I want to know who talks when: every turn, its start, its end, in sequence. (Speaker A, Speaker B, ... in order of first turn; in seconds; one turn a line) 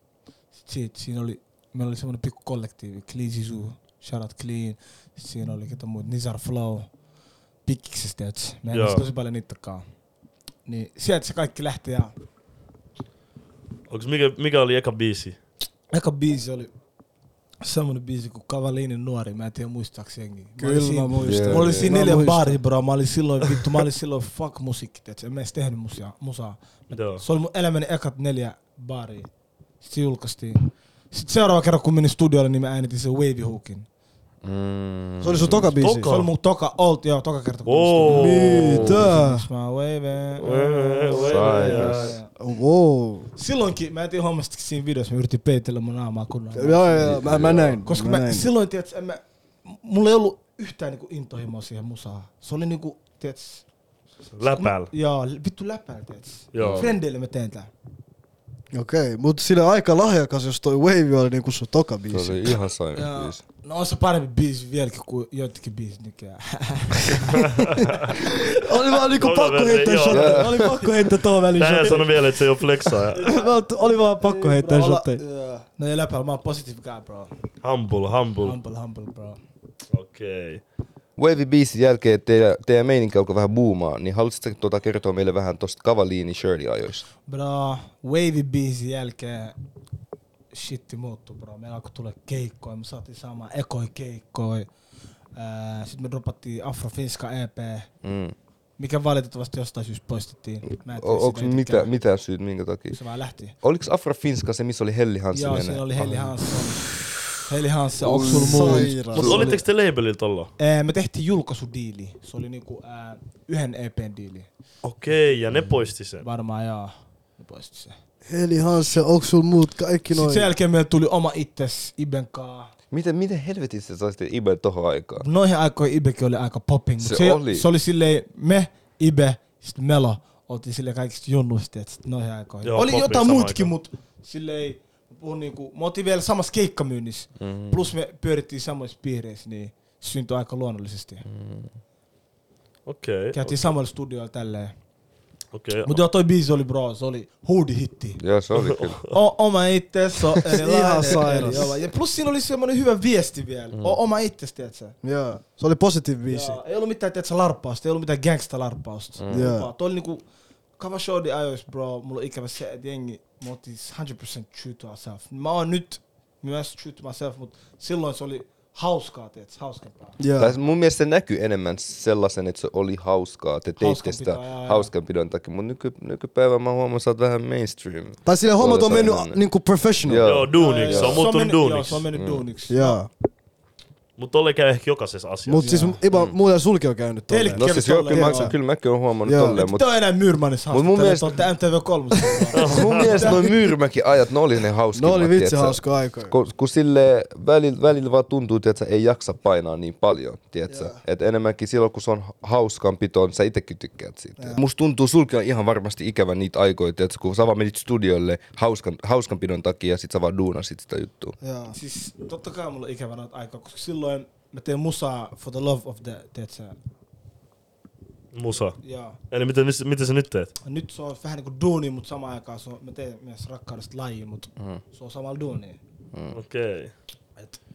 Speaker A: 0.5-6.9
Speaker A: 7.6-9.8
Speaker B: 8.7-9.1
Speaker A: 10.7-12.1
Speaker B: 13.9-15.4
Speaker A: 15.9-16.7
Speaker A: 17.6-29.3
Speaker C: 20.6-22.6
Speaker D: 21.2-22.0
Speaker B: 26.9-27.2
Speaker A: 29.8-33.9
Speaker D: 34.4-35.8
Speaker C: 35.2-36.1
Speaker B: 35.8-36.3
Speaker A: 36.0-42.3
Speaker B: 37.6-38.8
Speaker C: 38.0-39.5
Speaker D: 38.6-39.1
Speaker B: 40.4-42.1
Speaker D: 41.2-42.2
Speaker C: 42.4-43.3
Speaker A: 43.4-47.3
Speaker C: 46.5-48.5
Speaker D: 47.0-47.8
Speaker A: 47.8-53.6
Speaker B: 54.3-54.9
Speaker A: 54.4-57.7
Speaker B: 56.5-56.9
Speaker D: 56.6-56.9
Speaker C: 58.7-62.6
Speaker D: 62.1-63.4
Speaker A: 62.9-68.4
Speaker B: 67.4-68.1
Speaker C: 68.2-72.1
Speaker B: 69.2-70.5
Speaker D: 70.1-70.8
Speaker A: 70.5-72.1
Speaker B: 71.5-73.2
Speaker A: 73.1-77.3
Speaker C: 73.1-75.2
Speaker B: 77.6-78.6
Speaker A: 78.4-79.4
Speaker B: 79.9-80.6
Speaker D: 81.2-87.0
Speaker A: 87.2-89.5
Speaker A: 90.5-94.7
Speaker A: 95.3-97.9
Speaker D: 98.0-98.3
Speaker A: 98.8-101.9
Speaker D: 100.9-103.0
Speaker A: 102.9-103.5
Speaker D: 103.6-106.4
Speaker A: 105.3-109.6
Speaker C: 108.0-109.5
Speaker D: 108.2-108.5
Speaker B: 109.1-110.5
Speaker A: 110.6-114.5
Speaker B: 114.8-116.2
Speaker A: 116.2-118.0
Speaker C: 118.3-120.5
Speaker A: 120.1-122.7
Speaker D: 122.9-125.2
Speaker A: 125.2-141.2
Speaker D: 127.0-127.7
Speaker B: 132.6-133.7
Speaker D: 137.4-137.9
Speaker D: 141.2-141.7
Speaker B: 142.8-143.6
Speaker A: 143.3-144.7
Speaker B: 145.5-146.0
Speaker A: 145.8-148.2
Speaker D: 148.2-149.0
Speaker B: 148.5-149.1
Speaker A: 149.1-154.9
Speaker C: 150.5-151.8
Speaker C: 155.0-156.6
Speaker A: 156.3-160.2
Speaker D: 159.2-159.5
Speaker C: 159.3-159.7
Speaker A: 160.8-170.2
Speaker C: 170.2-170.6
Speaker D: 170.4-179.4
Speaker A: 173.8-174.9
Speaker C: 178.2-180.3
Speaker D: 180.0-181.2
Speaker B: 180.2-182.1
Speaker A: 180.6-183.0
Speaker D: 182.1-182.4
Speaker C: 182.7-183.1
Speaker B: 184.2-185.7
Speaker C: 185.4-188.6
Speaker A: 185.6-186.0
Speaker A: 187.3-188.5
Speaker D: 187.5-189.9
Speaker C: 189.2-189.6
Speaker A: 189.5-193.5
Speaker D: 190.7-191.5
Speaker B: 192.5-193.2
Speaker D: 192.6-211.4
Speaker C: 194.9-196.3
Speaker A: 211.4-216.8
Speaker B: 218.3-218.8
Speaker A: 218.8-219.2
Speaker B: 219.3-220.5
Speaker A: 220.6-225.8
Speaker B: 226.3-226.9